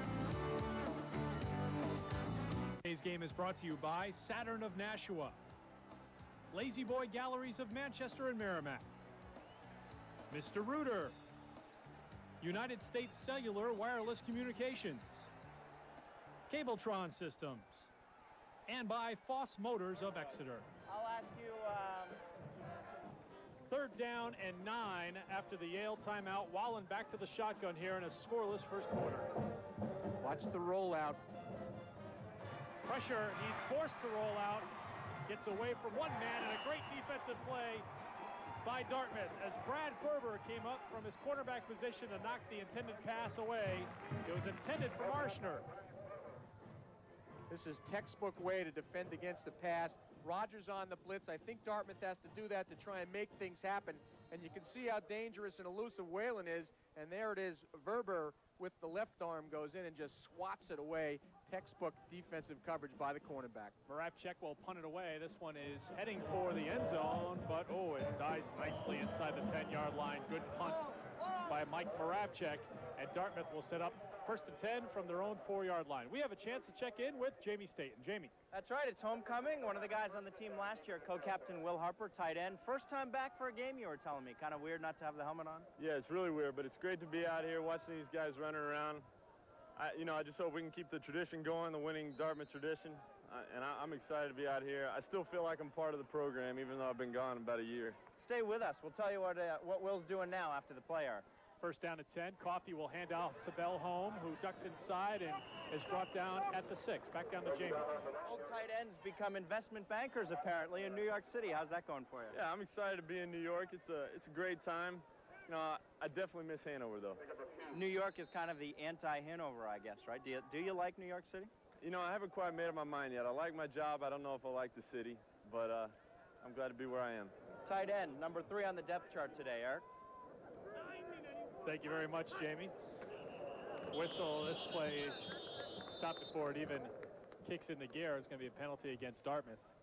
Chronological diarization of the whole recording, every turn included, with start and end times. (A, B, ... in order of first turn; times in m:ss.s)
0:02.8-0:05.4 A
0:06.5-0:08.8 A
0:10.3-0:11.2 A
0:12.4-0:15.3 A
0:16.5-0:17.9 A
0:18.7-0:20.7 A
0:20.9-0:22.2 B
0:23.7-0:29.3 A
0:30.2-0:31.2 C
0:32.8-0:34.7 A
0:35.3-0:37.8 A
0:38.6-0:45.6 A
0:47.5-1:03.7 C
1:03.9-1:18.3 A
1:18.5-1:25.7 B
1:25.8-1:29.1 D
1:29.8-1:38.0 D
1:38.2-1:41.2 B
1:41.6-1:47.9 A
1:48.2-1:52.4 B
1:52.3-1:57.2 D
1:57.7-2:01.5 B
2:01.8-2:07.3 D
2:07.6-2:09.8 B
2:11.6-2:12.7 A
2:13.9-2:15.2 A
2:15.9-2:19.6 A